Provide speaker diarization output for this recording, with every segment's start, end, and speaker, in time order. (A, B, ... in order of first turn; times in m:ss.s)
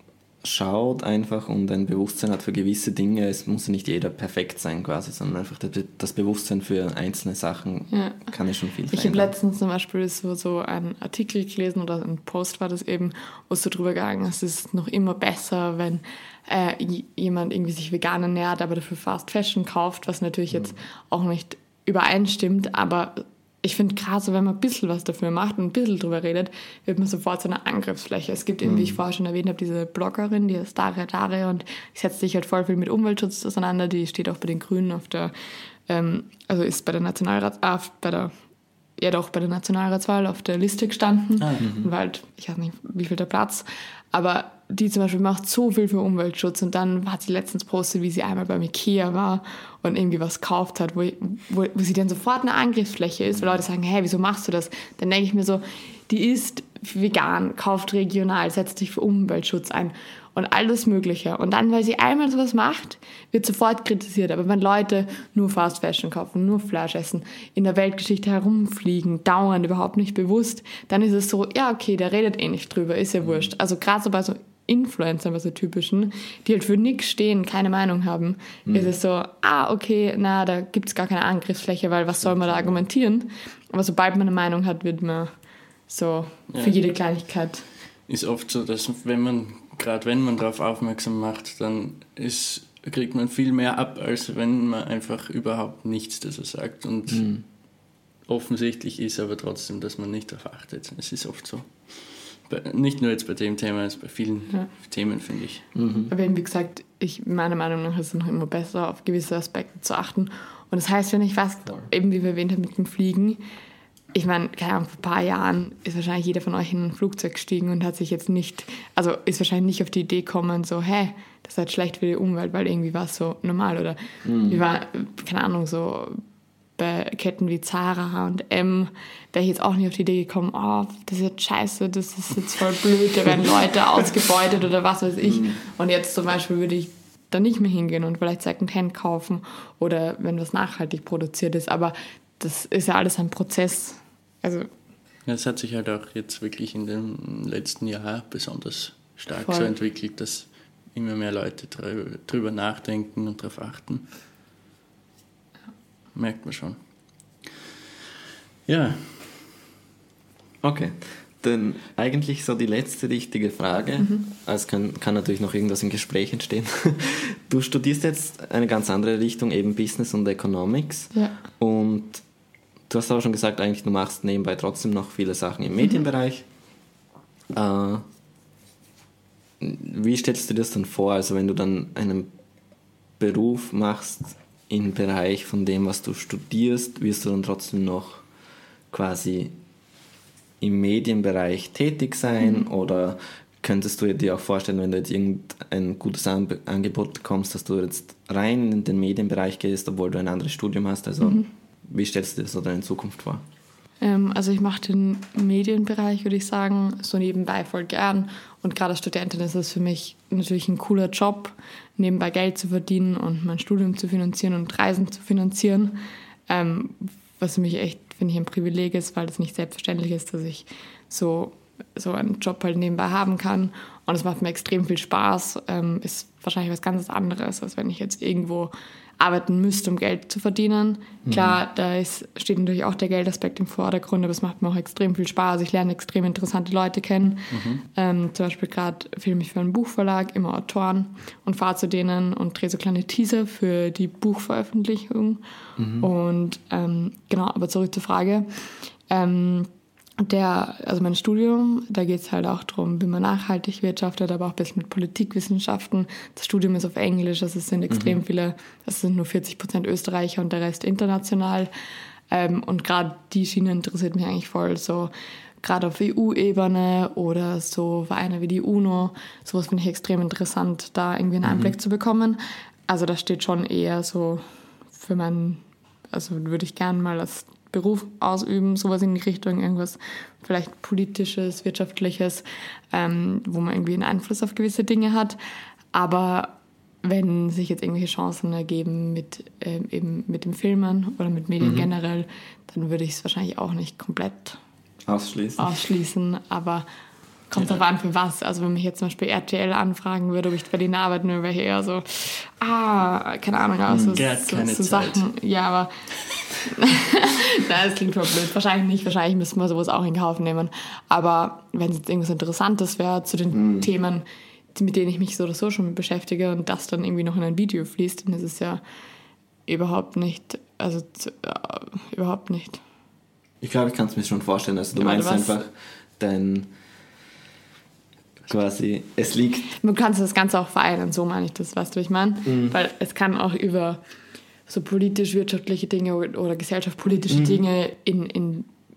0:00.4-0:09.3 A
0:07.9-0:08.2 B
0:08.9-0:35.3 B
0:28.6-0:29.0 A
0:35.8-0:38.3 B
0:39.0-1:25.3 B
0:41.4-0:41.6 C
0:41.6-0:41.9 A
1:18.7-1:18.9 A
1:22.2-1:22.8 A
1:25.9-1:27.6 B
1:26.5-1:26.7 C
1:28.0-1:37.4 C
1:37.1-1:37.4 A
1:38.2-1:45.7 C
1:45.7-1:46.1 A
1:46.1-1:53.4 B
1:54.1-2:06.2 B
2:04.2-2:04.6 A
2:06.8-2:24.7 B
2:15.3-2:15.6 A
2:25.2-2:34.0 C
2:29.4-2:29.7 B
2:36.1-2:36.8 C
2:38.6-2:39.5 C
2:40.6-2:52.2 A
2:52.9-2:56.5 A
2:57.5-2:58.0 A
2:59.6-3:02.3 A
3:03.2-3:08.2 A
3:08.9-3:09.5 A
3:10.6-3:23.4 A
3:21.2-3:21.5 B
3:24.0-4:05.4 B
3:51.2-3:51.6 A
3:57.5-3:57.8 C
4:05.8-4:06.1 A
4:06.0-4:21.7 B
4:17.9-4:18.2 A
4:22.3-4:25.1 B
4:25.6-4:45.4 B
4:31.4-4:31.7 A
4:45.9-4:54.6 B
4:51.6-4:51.9 A
4:55.0-4:55.7 A
4:55.6-4:56.8 B
4:57.5-5:05.9 B
5:03.9-5:04.2 A
5:04.1-5:05.2 C
5:06.6-5:18.8 B
5:13.5-5:13.9 A
5:19.7-5:22.8 B
5:23.6-5:26.7 A
5:24.9-5:25.6 B
5:28.5-5:29.7 A
5:29.8-5:34.0 B
5:32.4-5:32.7 A
5:34.6-5:38.7 B
5:37.3-5:37.6 A